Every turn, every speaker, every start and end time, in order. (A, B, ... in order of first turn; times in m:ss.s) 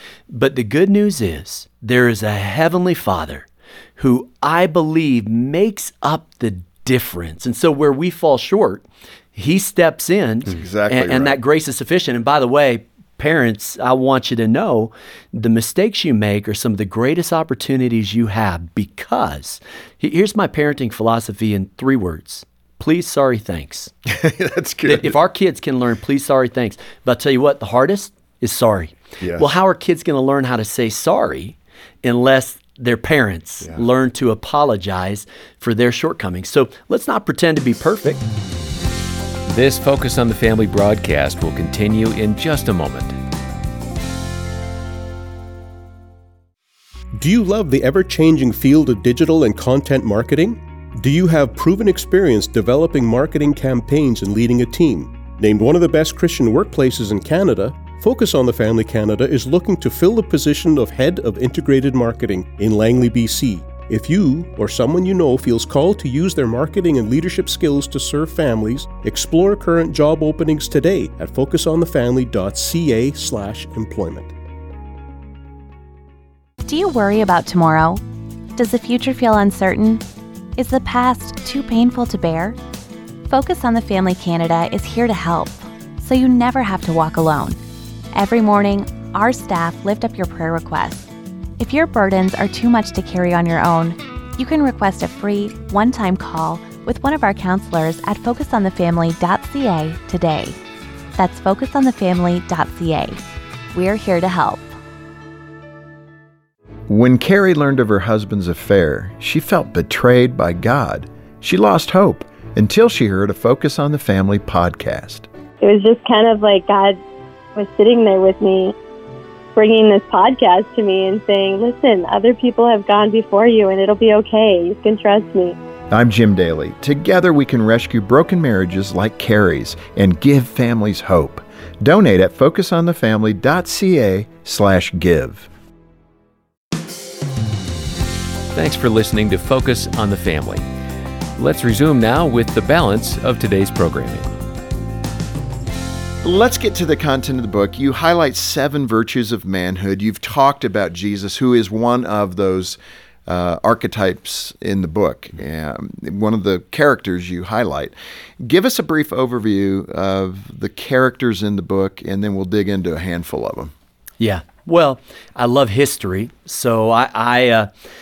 0:00.3-0:23.9 A
0:10.5-0:11.4 B
0:24.0-0:25.2 B
0:24.8-0:38.2 A
0:29.2-0:29.5 B
0:39.5-0:43.2 C
0:47.2-1:14.3 D
1:16.6-1:18.0 E
1:18.6-1:20.0 E
1:20.6-1:22.6 E
1:23.3-1:27.6 E
1:28.1-1:31.1 E
1:31.6-1:40.6 E
1:41.2-1:43.2 E
1:43.7-1:44.7 E
1:46.9-1:55.3 B
1:55.6-1:57.0 F
1:57.5-1:58.7 F
1:59.6-2:05.6 F
2:05.9-2:15.5 B
2:18.5-2:20.6 C
2:21.4-2:24.3 C
2:26.2-2:43.7 B
2:44.2-2:47.7 A